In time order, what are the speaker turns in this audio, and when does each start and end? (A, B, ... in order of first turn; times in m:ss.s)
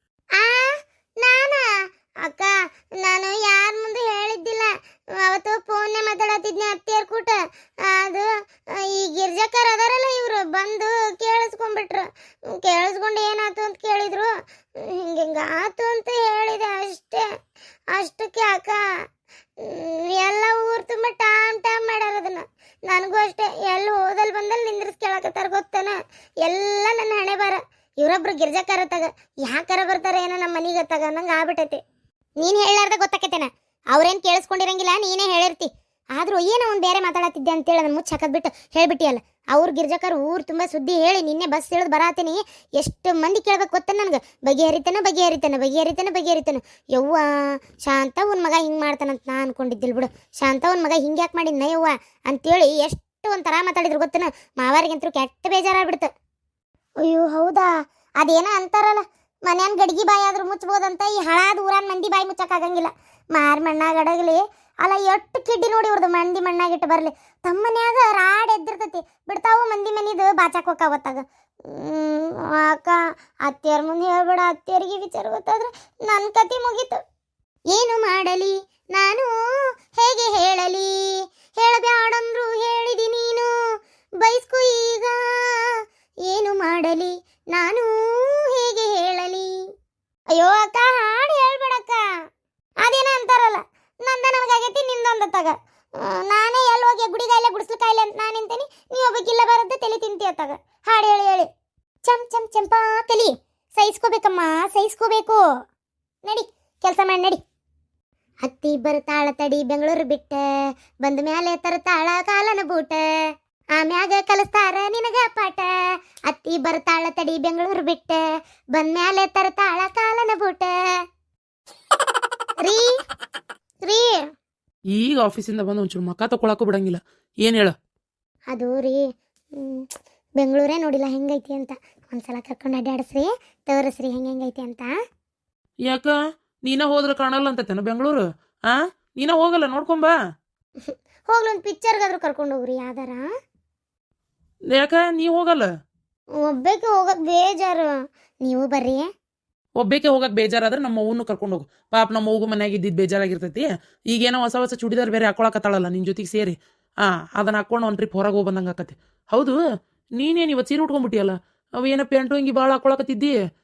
0:00.4-0:01.6 A
0:02.2-0:17.2 A
0:17.9-0:18.8 A
0:19.6-0:31.8 A
0:32.4-0:56.1 A
0:57.0-1:17.0 A
1:17.7-1:19.3 A
1:20.0-1:20.9 A
1:21.6-1:23.5 A
1:24.2-1:25.7 A
1:26.2-1:29.5 A
1:30.3-1:32.0 A
1:32.8-1:41.5 A
1:42.0-1:45.4 A
1:46.2-1:47.4 A
1:48.4-1:50.4 A
1:51.0-1:53.0 A
1:53.7-1:55.7 A
1:56.3-1:58.2 A
1:58.7-2:00.7 A
2:03.8-2:04.1 A
2:05.0-2:07.7 B
2:08.5-2:09.0 A
2:09.6-2:09.8 A
2:10.4-2:14.9 A
2:15.9-2:16.1 B
2:16.6-2:18.2 B
2:19.2-2:20.1 B
2:20.8-2:23.2 A
2:24.7-2:25.7 B
2:26.4-2:27.9 A
2:28.4-2:29.1 A
2:29.8-2:36.5 B
2:37.3-2:39.6 B
2:40.2-2:43.4 B